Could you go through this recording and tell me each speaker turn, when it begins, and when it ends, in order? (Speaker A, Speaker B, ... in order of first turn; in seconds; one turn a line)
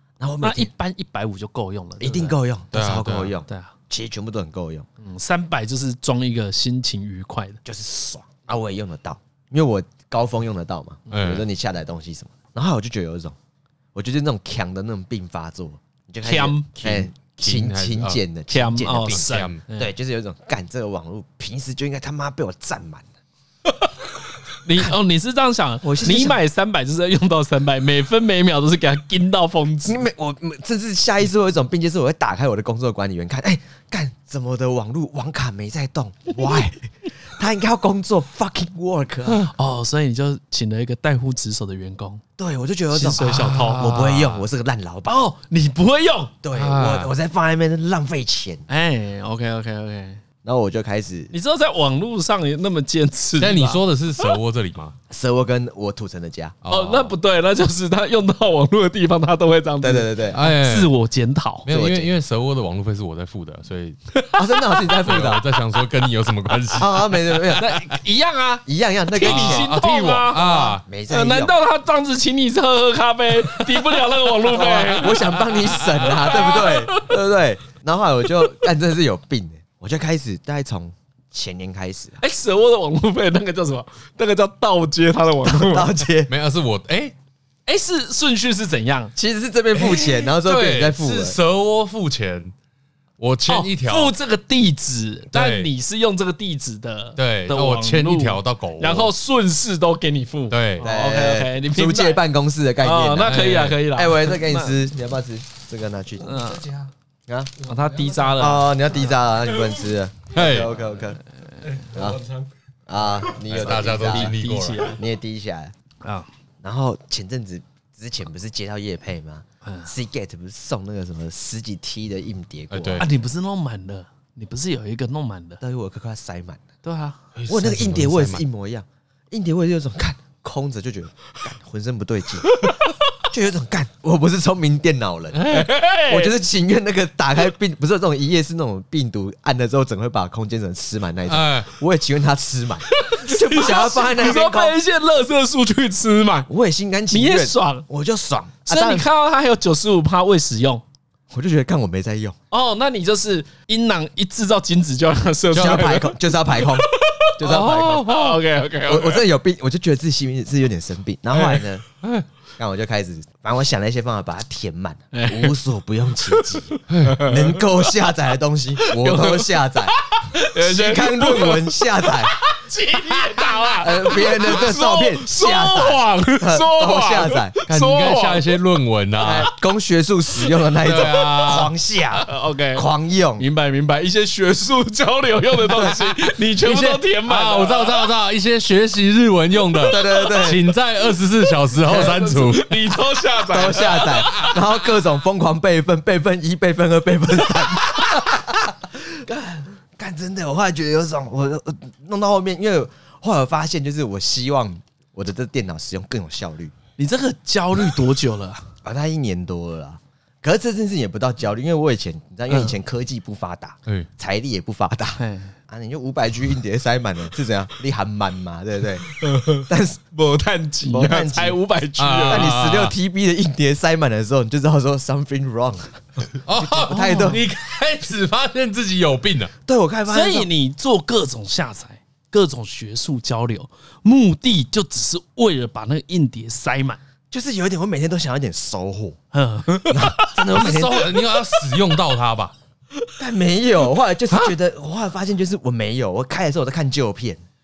Speaker A: 0.2-0.7
Speaker B: 0.4-2.4
Speaker A: 2.0-4.8
Speaker C: 2.7-3.3
Speaker B: 3.5-3.7
Speaker B: 5.0-7.6
Speaker A: 7.6-13.3
Speaker C: 11.1-11.4
Speaker A: 13.9-23.1
Speaker B: 16.2-17.1
Speaker C: 17.4-18.2
Speaker B: 18.5-19.9
Speaker C: 19.1-19.6
Speaker B: 24.6-30.0
Speaker A: 25.8-26.4
Speaker A: 29.9-39.5
Speaker B: 39.5-42.2
Speaker A: 42.4-45.3
Speaker B: 42.9-43.9
Speaker C: 43.1-44.4
Speaker B: 45.1-46.3
Speaker A: 46.4-48.6
Speaker C: 46.5-47.1
Speaker B: 48.7-50.2
Speaker A: 50.4-51.3
Speaker B: 51.3-53.8
Speaker C: 53.4-54.9
Speaker A: 55.1-56.5
Speaker C: 56.6-57.1
Speaker B: 56.7-61.7
Speaker A: 59.8-60.4
Speaker C: 60.3-60.9
Speaker C: 61.6-64.0
Speaker A: 61.7-62.1
Speaker B: 64.1-65.1
Speaker A: 64.3-65.5
Speaker C: 65.0-67.8
Speaker A: 66.8-67.8
Speaker B: 67.5-77.2
Speaker A: 68.7-69.7
Speaker C: 69.2-70.8
Speaker A: 70.4-71.5
Speaker A: 74.5-82.2
Speaker C: 75.0-76.2
Speaker B: 82.2-86.0
Speaker A: 85.4-86.3
Speaker C: 86.3-87.1
Speaker B: 87.7-89.1
Speaker A: 89.2-91.4
Speaker C: 89.8-92.5
Speaker C: 93.2-94.1
Speaker B: 93.5-102.2
Speaker C: 95.3-95.7
Speaker C: 97.2-99.1
Speaker C: 100.5-100.8
Speaker A: 100.8-106.5
Speaker B: 102.8-104.7
Speaker C: 103.2-103.8
Speaker B: 106.2-106.8
Speaker A: 107.3-107.5
Speaker B: 107.6-108.7
Speaker A: 108.3-111.2
Speaker C: 110.3-110.7
Speaker A: 111.8-112.2
Speaker A: 112.9-115.7
Speaker C: 113.5-114.9
Speaker B: 114.0-115.0
Speaker A: 116.6-123.0
Speaker B: 119.6-119.9
Speaker C: 122.7-123.1
Speaker B: 123.0-125.6
Speaker A: 125.6-126.6
Speaker B: 126.8-127.2
Speaker C: 127.3-128.4
Speaker A: 127.5-135.5
Speaker B: 132.5-132.9
Speaker C: 135.3-135.7
Speaker B: 135.5-136.3
Speaker A: 136.1-144.8
Speaker C: 141.3-141.7
Speaker B: 142.9-146.5
Speaker A: 146.5-149.1
Speaker B: 147.1-147.8
Speaker B: 148.7-150.8
Speaker A: 151.3-152.3
Speaker B: 152.5-159.2
Speaker A: 155.5-158.1
Speaker C: 157.4-158.4
Speaker A: 158.8-161.8
Speaker A: 162.6-172.3
Speaker B: 165.1-165.5
Speaker B: 166.3-167.7
Speaker C: 166.9-167.2
Speaker B: 168.8-178.5
Speaker A: 173.8-177.6
Speaker C: 177.7-179.5
Speaker A: 179.2-183.4
Speaker C: 180.8-181.7
Speaker B: 182.1-188.1
Speaker A: 185.7-185.9
Speaker C: 186.6-192.9
Speaker A: 189.8-190.6
Speaker B: 190.0-190.4
Speaker B: 191.8-194.6
Speaker A: 191.8-192.3
Speaker A: 193.4-206.7
Speaker B: 207.0-208.7
Speaker A: 208.8-220.0
Speaker B: 215.2-215.5
Speaker B: 219.2-222.6
Speaker A: 220.8-221.6
Speaker C: 222.0-222.9
Speaker A: 222.3-226.0
Speaker C: 226.4-229.5
Speaker A: 226.6-227.4
Speaker B: 226.9-227.4
Speaker A: 229.7-230.5
Speaker B: 230.1-237.0
Speaker A: 237.3-239.2
Speaker B: 239.3-241.8
Speaker A: 239.8-241.2
Speaker C: 240.5-242.5
Speaker A: 243.2-247.4